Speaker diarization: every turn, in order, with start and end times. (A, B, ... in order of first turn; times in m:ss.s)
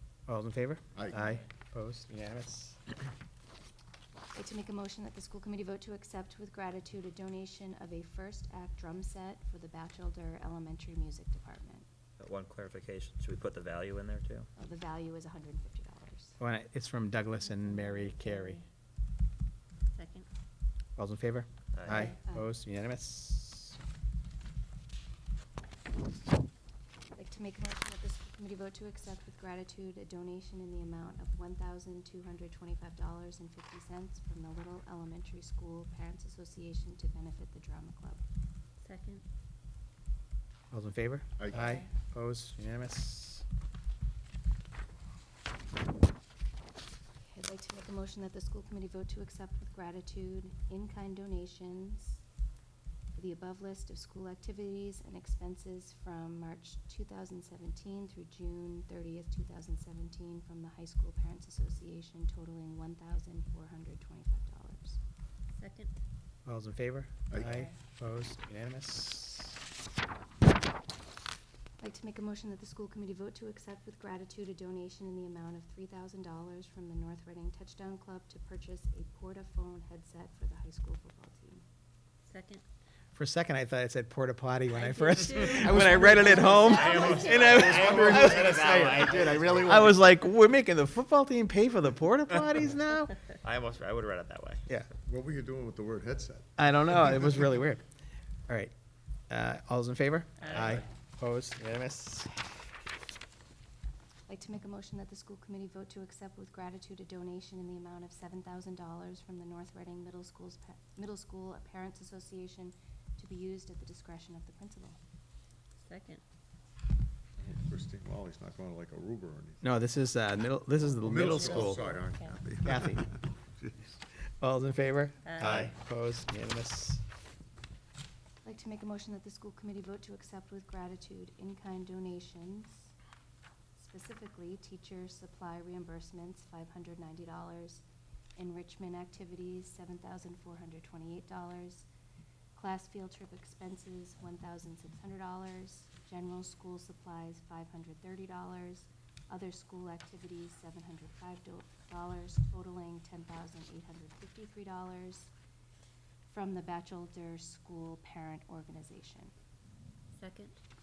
0:00.3-0:02.8 A
0:04.3-0:11.8 B
0:12.2-0:14.5 C
0:14.6-0:16.4 B
0:16.4-0:18.6 A
0:17.8-0:18.6 D
0:19.9-0:20.3 D
0:21.0-0:23.8 A
0:21.7-0:22.1 C
0:22.0-0:22.5 B
0:27.2-0:38.2 B
0:38.8-0:39.2 D
0:40.7-0:43.4 A
0:41.4-0:41.8 E
0:47.2-0:52.2 B
0:53.2-1:05.0 B
1:05.6-1:05.9 D
1:06.5-1:09.6 A
1:07.3-1:07.7 E
1:11.8-1:21.6 B
1:22.2-1:22.6 D
1:23.1-1:33.2 A
1:24.7-1:27.6 D
1:26.3-1:30.0 C
1:26.5-1:28.1 B
1:33.4-1:34.7 C
1:35.1-1:36.5 E
1:36.6-1:37.8 A
1:38.5-1:38.7 A
1:39.3-1:42.6 A
1:40.5-1:40.8 C
1:44.3-1:55.0 B
1:55.8-1:56.2 D
1:57.4-1:59.6 E
1:59.6-2:01.9 A
2:01.0-2:03.1 E
2:01.2-2:02.4 D
2:02.6-2:03.1 A
2:04.4-2:07.0 A
2:05.2-2:05.6 D
2:08.4-2:12.9 B
2:13.8-2:17.8 B
2:18.4-2:21.9 B
2:22.5-2:35.3 B
2:36.3-2:39.3 B
2:40.2-2:40.6 D